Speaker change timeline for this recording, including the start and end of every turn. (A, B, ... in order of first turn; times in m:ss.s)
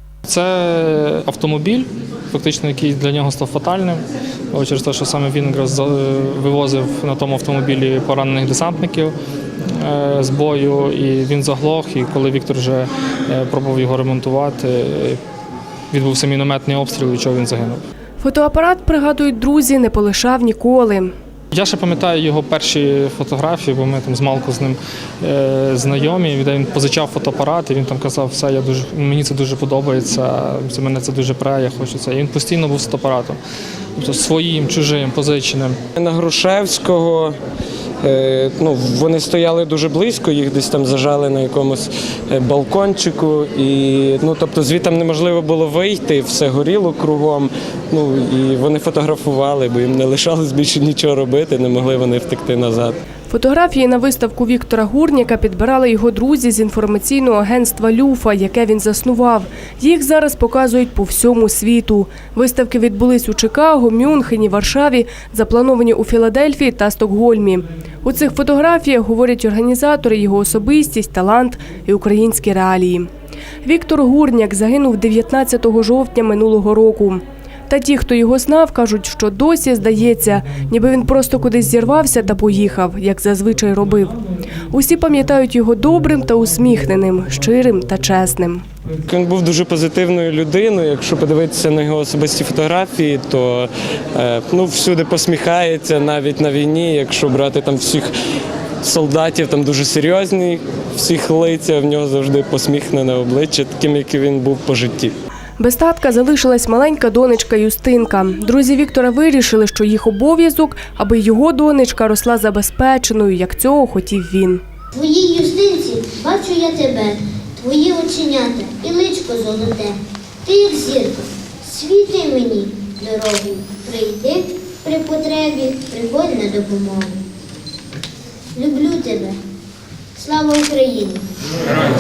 0:00.2-0:09.2 A
0:09.7-0:15.2 A
0:15.9-0:17.8 A
0:18.2-0:21.1 B
0:21.5-0:33.4 A
0:34.0-0:35.8 A
0:36.0-0:37.4 C
0:38.0-0:53.0 C
0:53.3-1:13.1 B
1:13.6-1:24.2 B
1:24.7-1:28.6 B
1:29.1-1:38.1 C
1:38.8-1:45.2 C
1:45.6-1:54.6 B
1:54.9-2:07.2 D
2:08.6-2:09.4 D
2:10.2-2:11.3 D